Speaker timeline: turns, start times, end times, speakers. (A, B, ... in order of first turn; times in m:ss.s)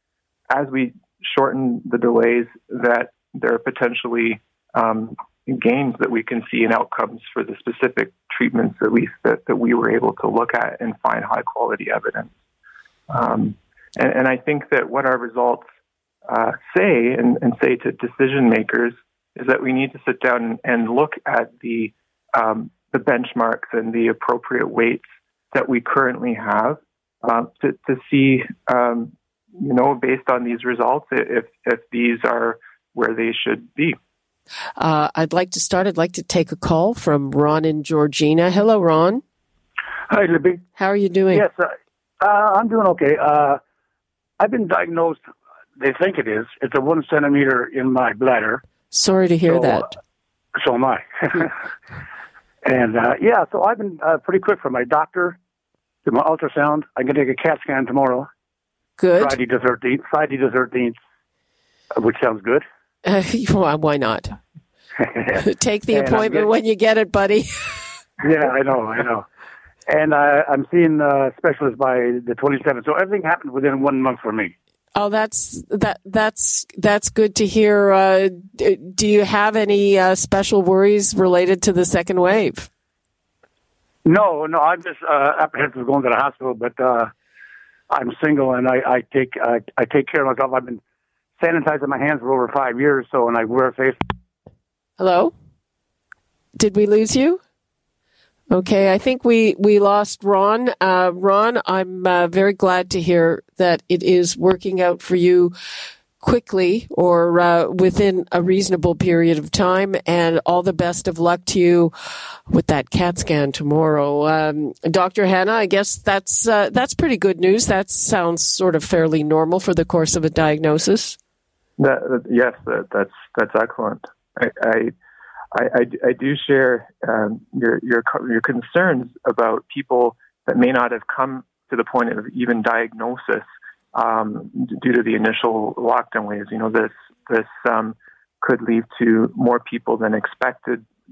0:00.5-0:12.3 A
0:13.1-0:15.7 A
0:16.3-0:34.0 A
0:34.8-0:39.2 B
0:40.1-0:40.6 C
0:40.8-0:41.4 B
0:41.4-0:41.7 C
0:42.2-0:43.6 C
0:44.4-0:45.2 C
0:45.8-0:48.6 C
0:48.9-0:50.0 B
0:50.6-0:51.5 C
0:52.6-0:55.3 C
0:56.0-0:58.2 C
0:59.0-0:59.4 B
0:59.2-1:00.9 C
1:02.0-1:02.6 C
1:03.0-1:04.3 B
1:05.4-1:07.8 B
1:06.0-1:06.4 C
1:08.2-1:09.2 C
1:09.9-1:14.5 C
1:15.0-1:22.7 B
1:24.0-1:27.1 C
1:27.9-1:30.8 C
1:31.4-1:34.0 C
1:35.0-1:35.3 B
1:36.6-1:37.4 B
1:38.5-1:45.5 B
1:46.2-1:51.9 B
1:52.5-2:01.2 B
2:01.8-2:04.9 A
2:05.5-2:20.8 A